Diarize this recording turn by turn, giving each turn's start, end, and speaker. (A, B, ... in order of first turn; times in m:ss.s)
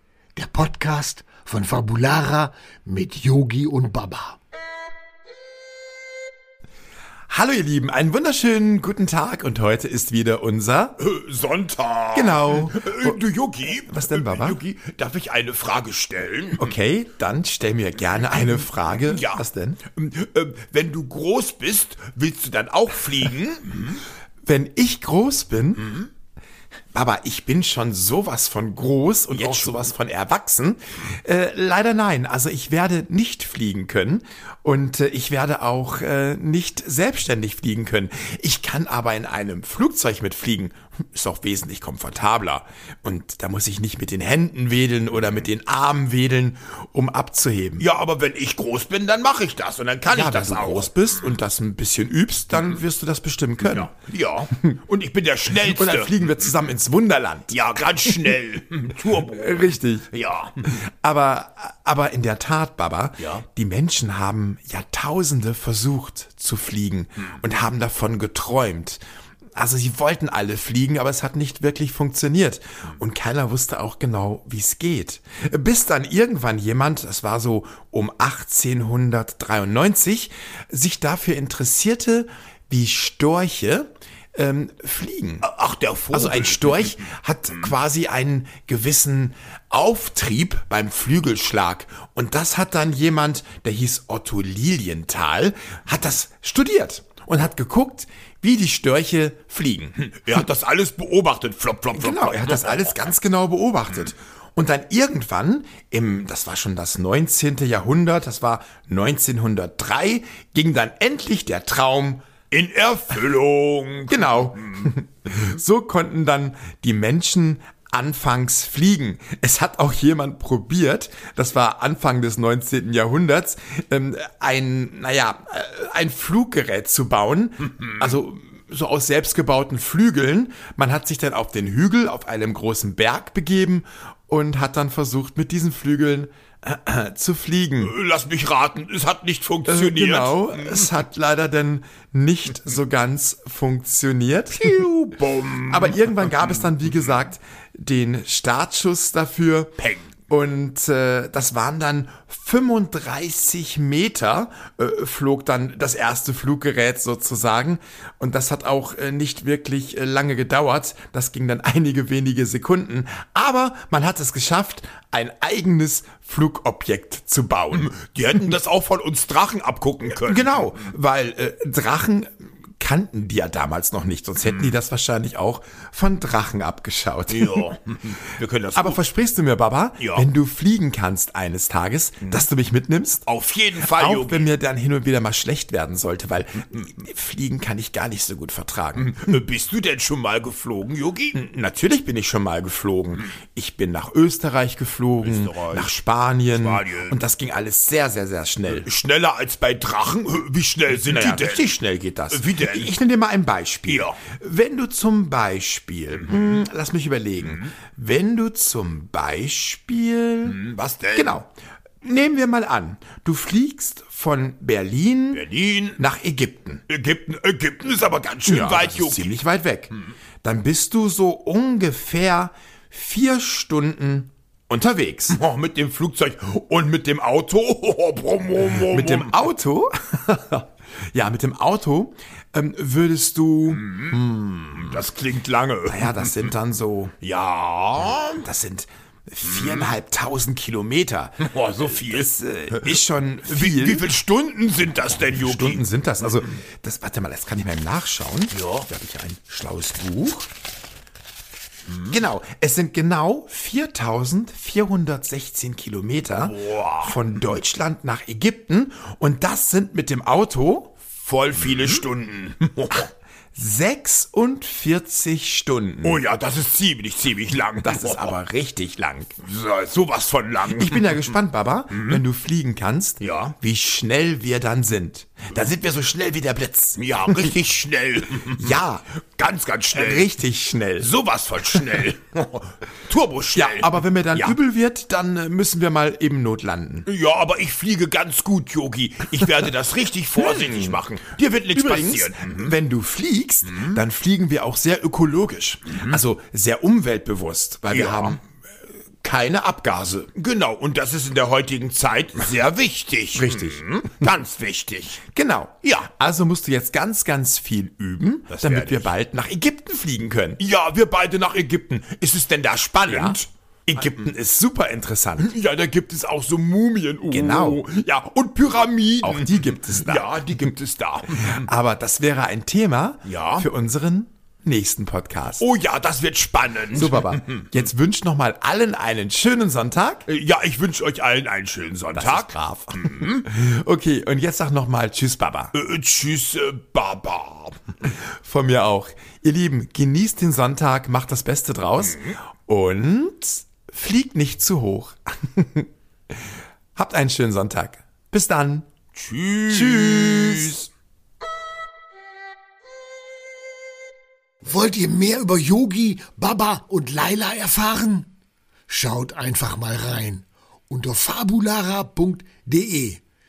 0:00.4-0:04.4 A
0:07.3-0:11.0 B
0:11.0-0:16.7 C
0:12.1-0:13.2 B
0:13.8-0:14.6 B
0:16.6-0:19.8 B
0:18.3-0:24.0 C
0:24.4-0:25.9 B
0:26.9-0:47.8 B
0:29.3-0:29.9 C
0:47.8-0:51.4 C
0:50.1-0:53.9 B
0:53.6-0:56.1 C
0:55.5-0:58.3 B
0:57.5-1:00.7 C
0:59.3-1:00.1 B
1:00.6-1:09.0 B
1:03.2-1:03.4 C
1:09.5-1:25.5 B
1:25.4-1:26.9 C
1:26.1-1:40.0 B
1:40.0-1:43.1 C
1:41.9-1:52.2 B
1:52.5-1:54.9 C
1:54.1-2:17.9 B
2:17.8-2:21.0 C
2:19.7-2:29.7 B
2:24.6-2:26.8 C
2:29.8-2:30.1 C
2:30.3-2:47.9 B
2:47.7-2:50.9 C
2:50.1-2:57.7 B
2:54.4-2:54.7 C
2:57.3-2:59.0 C
2:58.7-3:03.2 B
3:00.0-3:00.3 C
3:03.2-3:04.5 C
3:03.8-3:09.3 B
3:08.9-3:11.4 C
3:11.3-3:18.8 B
3:15.2-3:15.9 C
3:16.4-3:17.2 C
3:18.7-3:21.8 C
3:20.9-3:30.6 B
3:22.3-3:22.9 C
3:23.9-3:24.2 C
3:26.3-3:26.6 C
3:30.4-3:31.4 C
3:31.1-3:31.5 B
3:32.0-3:35.4 B
3:35.3-3:36.0 C
3:36.0-3:36.8 B
3:36.9-3:39.3 C
3:38.4-3:39.9 B
3:40.4-3:45.4 B
3:45.3-3:49.4 C
3:48.7-3:55.0 B
3:53.7-3:56.5 C
3:55.8-3:57.1 B
3:57.2-3:58.4 C
3:58.0-4:04.1 B
3:59.5-3:59.9 C
4:01.4-4:05.8 C
4:05.2-4:10.5 B
4:08.5-4:08.9 C
4:12.0-4:21.0 B
4:16.4-4:17.2 C
4:21.2-4:23.1 C
4:23.5-4:26.2 B
4:26.0-4:28.3 C
4:27.8-4:29.3 B
4:29.4-4:31.3 C
4:30.7-4:37.5 B
4:31.9-4:32.2 C
4:33.2-4:33.5 C
4:37.0-4:38.8 C
4:38.5-4:39.0 B
4:39.4-4:40.3 C
4:39.9-4:41.1 B
4:41.0-4:44.6 C
4:43.5-4:47.1 B
4:47.0-4:52.7 C
4:50.4-4:58.4 B
4:53.7-4:54.0 C
4:55.9-4:56.2 C
4:57.9-4:58.4 C
4:59.2-5:00.3 B
5:00.3-5:05.2 C
5:03.3-5:04.3 B
5:05.3-5:10.6 B
5:05.8-5:06.1 C
5:08.5-5:09.1 C
5:10.6-5:14.1 C
5:13.0-5:13.4 B
5:13.9-5:15.5 B
5:15.4-5:21.7 C
5:17.3-5:17.8 B
5:19.2-5:20.3 B
5:21.3-5:25.6 B
5:23.2-5:23.7 C
5:25.6-5:27.7 C
5:26.9-5:30.2 B
5:30.3-5:33.4 C
5:32.1-5:35.7 B
5:35.7-5:37.8 C
5:38.4-5:45.9 B
5:42.0-5:42.4 C
5:47.0-5:48.9 B
5:49.1-5:50.8 C
5:49.7-5:50.9 B
5:54.6-5:58.3 A
5:58.9-6:03.2 A